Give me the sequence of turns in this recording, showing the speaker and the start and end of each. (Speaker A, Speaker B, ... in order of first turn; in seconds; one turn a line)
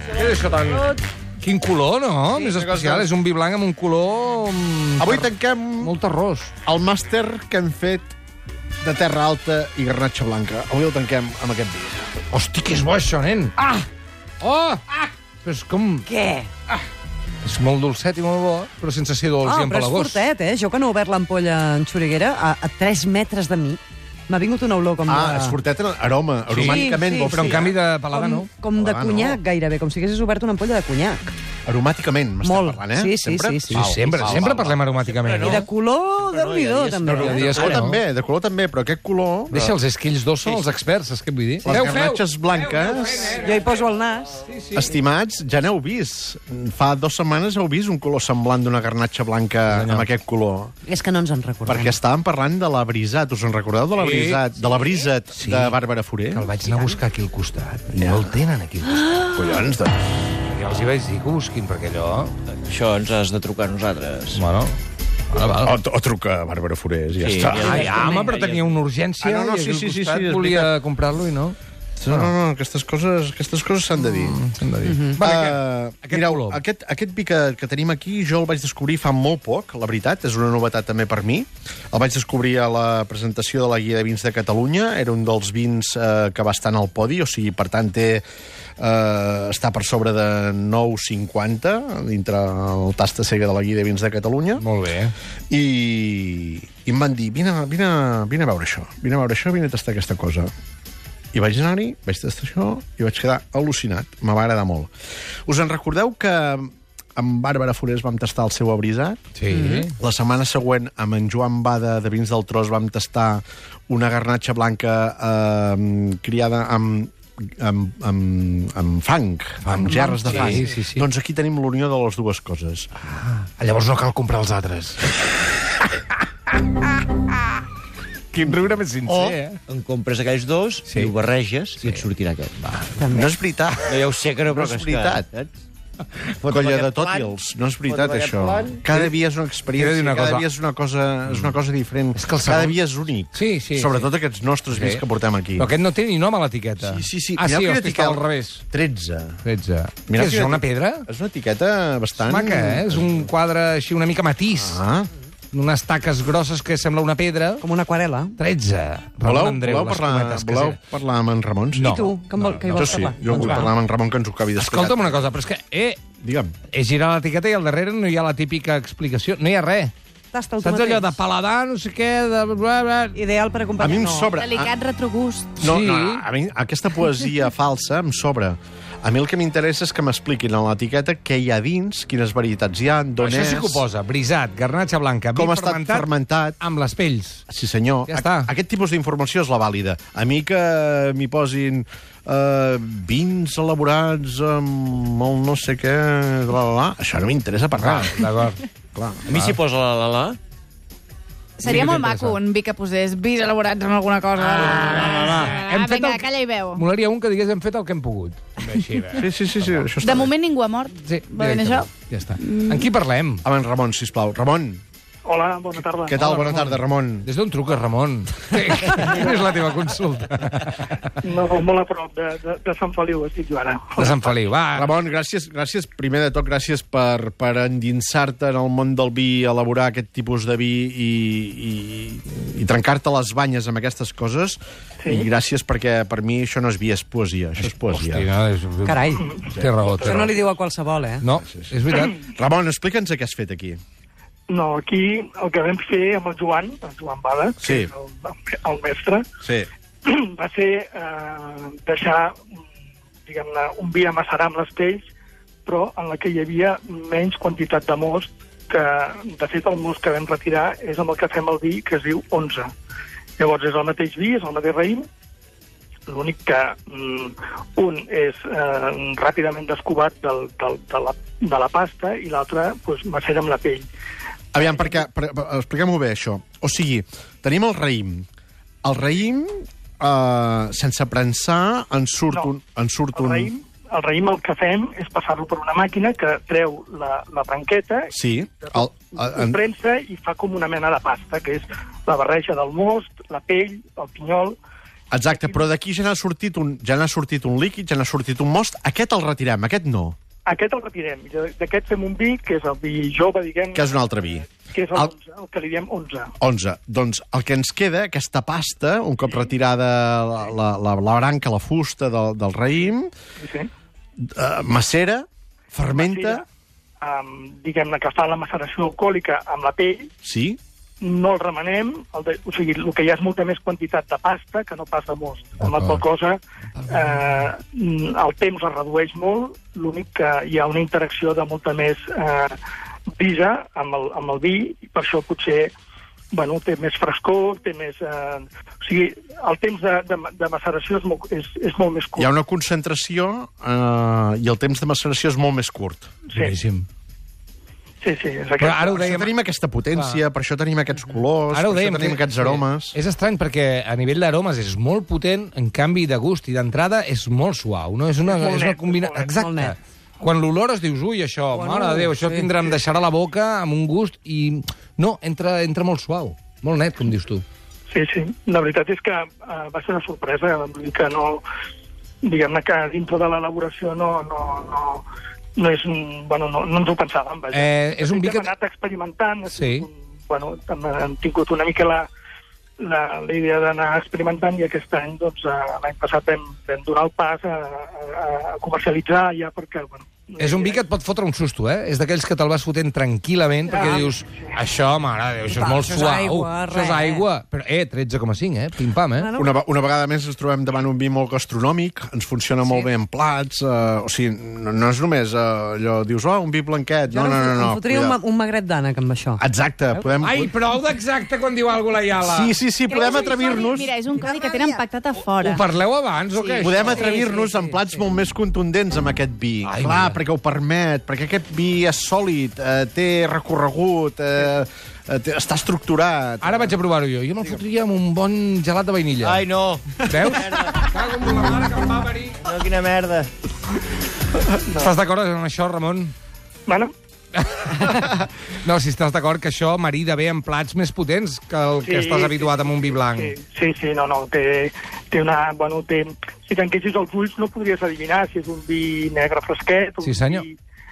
Speaker A: 0.1-6.5
Speaker B: 2.4-3.1
Speaker B: 5.0-5.9
Speaker B: 6.6-8.1
Speaker B: 8.8-12.1
Speaker A: 12.3-13.8
Speaker A: 14.4-16.1
Speaker C: 16.1-16.5
Speaker A: 17.4-20.2
Speaker C: 19.4-25.6
Speaker B: 25.1-27.8
Speaker A: 26.5-28.5
Speaker C: 26.6-27.4
Speaker C: 28.1-31.2
Speaker B: 28.7-29.4
Speaker B: 31.6-34.8
Speaker C: 32.4-34.0
Speaker A: 33.7-35.7
Speaker D: 34.2-35.6
Speaker C: 35.4-37.6
Speaker D: 36.2-37.8
Speaker B: 37.0-39.6
Speaker A: 37.2-38.0
Speaker A: 39.5-43.8
Speaker B: 41.6-43.4
Speaker C: 43.3-44.5
Speaker A: 44.4-44.9
Speaker B: 44.7-50.7
Speaker A: 49.7-50.1
Speaker C: 50.9-52.0
Speaker B: 51.6-56.5
Speaker A: 54.0-54.5
Speaker A: 55.3-55.7
Speaker A: 56.3-59.6
Speaker C: 56.6-57.0
Speaker B: 57.9-58.3
Speaker B: 59.3-60.1
Speaker A: 60.5-62.3
Speaker D: 62.6-64.4
Speaker A: 64.3-64.8
Speaker A: 65.3-65.7
Speaker B: 65.6-67.9
Speaker D: 67.2-68.6
Speaker A: 67.4-72.3
Speaker C: 67.7-68.3
Speaker B: 69.2-70.7
Speaker B: 72.0-74.4
Speaker A: 74.0-76.6
Speaker C: 74.8-75.2
Speaker B: 75.2-88.2
Speaker B: 88.8-94.6
Speaker A: 94.6-95.1
Speaker B: 95.5-100.5
Speaker B: 101.3-104.9
Speaker B: 105.5-109.2
Speaker A: 109.3-109.9
Speaker C: 109.5-109.9
Speaker B: 109.9-122.9
Speaker A: 119.6-121.0
Speaker A: 123.0-125.3
Speaker A: 128.3-129.6
Speaker D: 129.1-132.6
Speaker A: 130.9-131.1
Speaker A: 132.6-133.0
Speaker C: 133.0-133.3
Speaker B: 133.1-135.2
Speaker D: 133.8-135.6
Speaker D: 136.4-137.3
Speaker B: 136.5-145.7
Speaker D: 137.9-138.8
Speaker A: 139.7-140.5
Speaker A: 141.3-141.5
Speaker A: 142.2-142.8
Speaker A: 143.3-144.1
Speaker A: 144.7-145.0
Speaker A: 145.6-148.6
Speaker B: 146.8-149.4
Speaker A: 149.4-151.1
Speaker B: 150.1-153.2
Speaker A: 152.2-154.8
Speaker B: 154.5-155.1
Speaker A: 155.5-157.6
Speaker C: 157.6-158.3
Speaker A: 158.4-160.8
Speaker B: 159.2-162.1
Speaker A: 161.7-163.7
Speaker C: 161.8-163.7
Speaker B: 162.7-165.4
Speaker A: 164.6-166.0
Speaker B: 166.2-166.5
Speaker A: 166.7-169.9
Speaker C: 170.3-171.2
Speaker A: 170.6-173.2
Speaker C: 173.1-174.3
Speaker B: 173.8-174.7
Speaker E: 174.3-175.5
Speaker B: 175.6-183.8
Speaker A: 175.6-176.2
Speaker A: 183.2-186.1
Speaker B: 185.3-186.6
Speaker A: 186.6-187.4
Speaker B: 187.5-198.3
Speaker A: 188.1-188.5
Speaker A: 197.7-198.6
Speaker B: 198.9-199.3
Speaker A: 199.3-199.6
Speaker D: 199.3-200.4
Speaker E: 201.6-206.8
Speaker A: 201.6-202.4
Speaker A: 204.6-209.9
Speaker B: 209.1-210.3
Speaker E: 210.0-212.9
Speaker A: 211.0-213.4
Speaker B: 213.4-214.8
Speaker F: 215.2-216.2
Speaker B: 216.1-217.3
Speaker A: 216.1-221.1
Speaker F: 221.2-224.2
Speaker A: 224.0-224.9
Speaker B: 224.7-238.3
Speaker F: 235.0-235.2
Speaker A: 237.6-240.3
Speaker C: 238.8-239.3
Speaker F: 239.2-240.3
Speaker C: 240.1-241.2
Speaker A: 241.2-242.2
Speaker B: 241.4-243.8
Speaker F: 244.5-249.2
Speaker B: 247.6-247.9
Speaker B: 249.4-249.7
Speaker F: 250.0-252.4
Speaker F: 253.2-255.1
Speaker F: 255.7-262.7
Speaker F: 263.4-265.0
Speaker F: 266.1-273.9
Speaker B: 274.5-278.2
Speaker F: 274.6-275.0
Speaker B: 278.8-283.5
Speaker F: 283.1-294.6
Speaker B: 288.1-289.6
Speaker B: 295.1-300.1
Speaker F: 295.3-295.6
Speaker F: 300.4-306.3
Speaker B: 303.7-305.1
Speaker B: 306.4-313.1
Speaker F: 313.4-313.7
Speaker B: 314.2-316.4
Speaker F: 315.9-316.4
Speaker F: 317.0-320.1
Speaker B: 320.2-320.6
Speaker F: 321.0-332.6
Speaker A: 325.6-326.0
Speaker A: 326.8-327.2
Speaker F: 333.2-335.7
Speaker F: 336.3-342.3
Speaker B: 342.2-346.1
Speaker F: 346.3-346.6
Speaker A: 346.3-346.9
Speaker F: 348.0-349.0
Speaker A: 348.6-349.3
Speaker B: 348.9-353.0
Speaker A: 349.9-350.2
Speaker A: 351.5-367.4
Speaker F: 358.2-359.3
Speaker C: 359.3-359.8
Speaker C: 361.5-362.5
Speaker F: 367.9-371.4
Speaker F: 372.2-375.0
Speaker F: 375.6-382.1
Speaker A: 377.5-378.5
Speaker A: 379.5-379.9
Speaker F: 382.8-390.8
Speaker A: 390.4-399.3
Speaker F: 393.7-394.5
Speaker C: 393.8-394.0
Speaker C: 395.5-397.2
Speaker C: 399.2-399.5
Speaker B: 399.4-408.2
Speaker C: 407.1-409.4
Speaker B: 409.4-410.5
Speaker A: 410.0-413.2
Speaker B: 412.2-413.9
Speaker E: 412.9-415.6
Speaker C: 414.2-414.8
Speaker A: 415.4-417.1
Speaker E: 416.3-417.0
Speaker B: 416.6-426.8
Speaker C: 417.0-417.9
Speaker A: 419.6-420.2
Speaker A: 426.4-429.4
Speaker D: 429.2-430.9
Speaker A: 430.0-432.5
Speaker D: 432.4-433.3
Speaker F: 434.5-434.9
Speaker A: 434.8-436.1
Speaker A: 437.4-443.3
Speaker F: 441.8-450.6
Speaker A: 450.0-450.4